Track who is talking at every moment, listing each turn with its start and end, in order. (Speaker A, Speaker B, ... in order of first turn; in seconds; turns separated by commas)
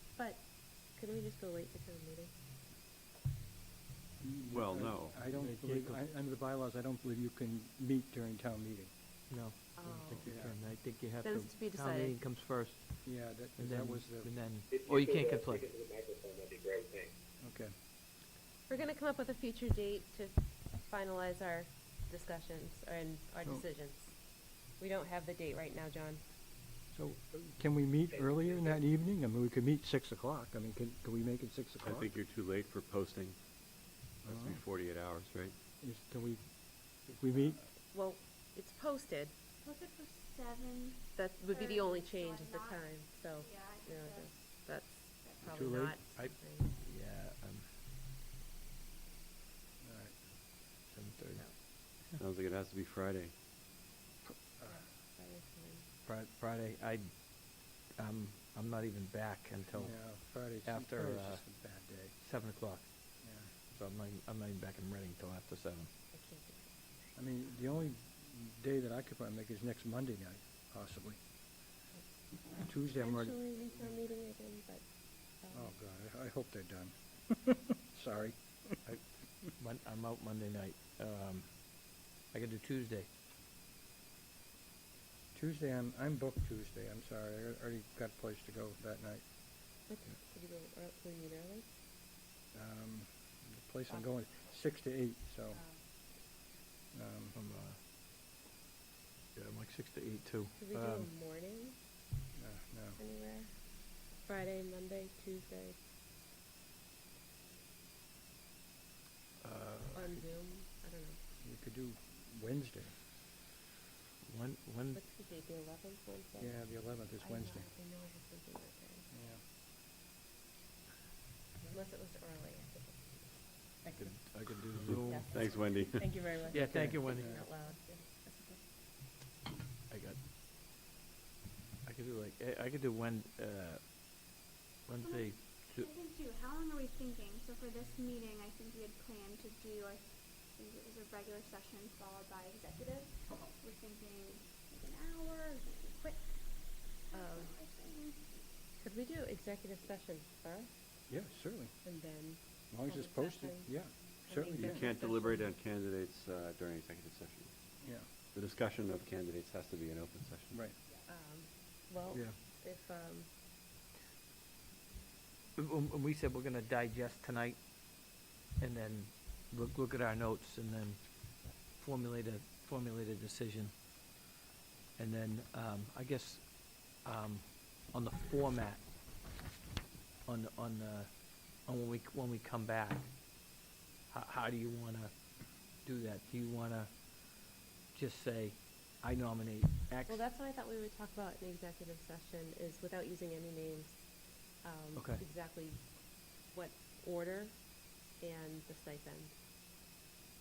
Speaker A: 0.1-2.3, Speaker B: 4.2-8.9, Speaker C: 4.5-5.2, Speaker D: 5.3-6.0, Speaker D: 9.3-15.7, Speaker A: 9.8-10.3, Speaker B: 10.2-10.6, Speaker A: 11.2-12.2, Speaker B: 13.1-14.3, Speaker E: 14.7-17.1, Speaker B: 17.4-17.8, Speaker A: 18.7-26.2, Speaker B: 26.9-32.1, Speaker E: 28.1-28.8, Speaker C: 31.8-35.6, Speaker B: 34.2-34.6, Speaker B: 35.8-37.7, Speaker A: 37.9-39.4, Speaker F: 39.6-45.5, Speaker A: 41.1-46.7, Speaker D: 45.5-47.7, Speaker B: 49.8-50.2, Speaker D: 50.9-52.2, Speaker C: 52.2-53.3, Speaker B: 54.3-54.9, Speaker A: 54.7-55.9, Speaker D: 56.0-61.5, Speaker B: 59.8-62.2, Speaker D: 62.2-65.9, Speaker B: 63.2-63.5, Speaker A: 66.1-66.8, Speaker B: 67.2-71.2, Speaker A: 71.9-75.8, Speaker B: 72.5-74.0, Speaker B: 75.5-78.8, Speaker D: 78.8-83.1, Speaker B: 85.3-89.4, Speaker A: 89.9-91.7, Speaker B: 92.5-95.7, Speaker A: 95.5-95.8, Speaker B: 96.9-97.4, Speaker D: 97.3-97.8, Speaker D: 99.3-101.1, Speaker A: 100.6-101.8, Speaker B: 102.3-103.0, Speaker A: 103.0-105.8, Speaker D: 109.4-110.2, Speaker A: 109.9-111.2, Speaker B: 111.4-113.0, Speaker D: 114.2-115.0, Speaker A: 114.9-119.1, Speaker B: 116.4-117.7, Speaker B: 119.1-119.4, Speaker A: 121.6-124.3, Speaker D: 124.0-125.4, Speaker C: 124.8-126.2, Speaker A: 124.8-128.6, Speaker D: 126.4-127.4, Speaker B: 126.6-127.5, Speaker D: 129.9-130.2, Speaker D: 131.8-134.0, Speaker D: 134.9-135.9, Speaker F: 134.9-148.5, Speaker A: 147.1-147.5, Speaker A: 148.8-150.8, Speaker B: 151.1-151.8, Speaker A: 151.8-155.5, Speaker B: 152.7-154.8, Speaker C: 154.5-160.6, Speaker B: 157.8-158.1, Speaker A: 161.1-163.3, Speaker D: 165.6-167.6, Speaker D: 168.6-173.7, Speaker D: 175.0-178.8, Speaker D: 180.2-183.1, Speaker D: 184.1-190.2, Speaker A: 190.1-199.3, Speaker D: 195.0-195.2